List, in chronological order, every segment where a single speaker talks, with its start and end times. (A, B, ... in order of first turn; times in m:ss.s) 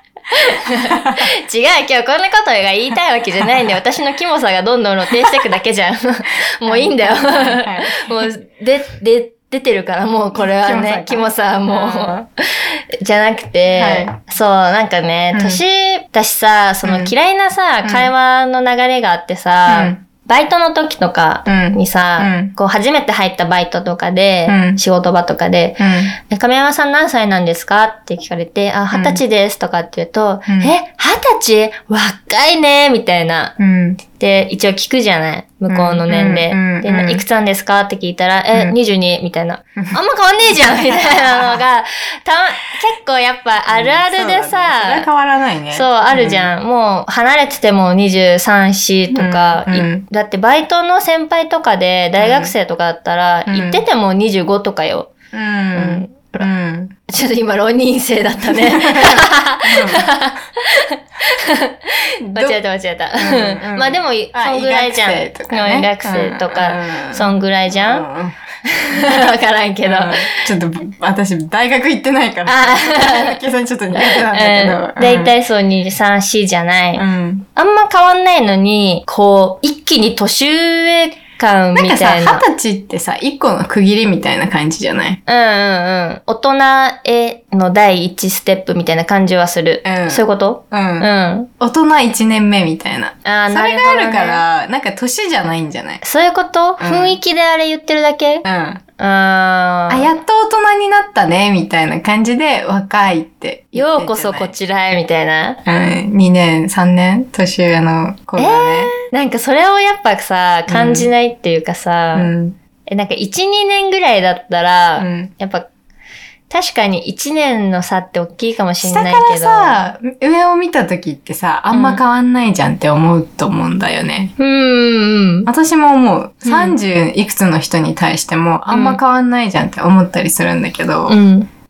0:00.3-0:33.6 A
0:00.9-0:01.3 B
0:06.6-0:08.3 B
0:10.4-0:12.3 B
0:13.8-0:14.2 B
0:15.3-0:15.6 B
0:16.8-0:17.1 B
0:17.8-0:18.1 B
0:19.7-0:20.0 B
0:21.5-0:22.5 B
0:24.5-0:24.8 B
0:25.8-0:26.1 B
0:28.9-0:29.2 B
0:30.5-0:30.7 B
0:33.6-0:34.0 B
0:34.1-0:45.1 A
0:35.7-0:37.2 B
0:39.8-0:41.6 B
0:43.7-0:46.5 B
0:45.7-0:55.1 A
0:49.1-0:50.0 B
0:52.2-0:52.5 B
0:53.5-0:53.8 B
0:55.3-0:56.9 B
0:55.7-0:56.5 A
0:57.1-1:08.1 A
0:58.5-1:00.1 B
1:02.2-1:02.6 B
1:03.2-1:09.3 B
1:08.7-1:10.5 A
1:09.8-1:15.3 B
1:12.5-1:13.4 A
1:14.0-1:22.4 A
1:17.0-1:17.5 B
1:21.8-1:25.2 B
1:25.3-1:31.5 A
1:29.8-1:31.1 B
1:31.6-1:36.0 B
1:33.2-1:34.4 A
1:36.0-1:38.5 A
1:36.8-1:37.2 B
1:38.4-1:38.8 B
1:39.0-1:40.1 A
1:39.9-1:44.5 B
1:43.8-1:45.6 A
1:45.7-1:48.9 B
1:48.4-1:52.3 A
1:50.7-1:51.1 B
1:52.1-1:52.6 B
1:52.9-1:55.7 A
1:55.0-1:55.3 B
1:56.5-1:59.8 A
1:58.8-2:04.3 B
2:01.7-2:02.0 A
2:04.4-2:05.5 A
2:05.5-2:11.2 B
2:06.4-2:06.8 A
2:08.7-2:09.0 A
2:11.1-2:11.5 A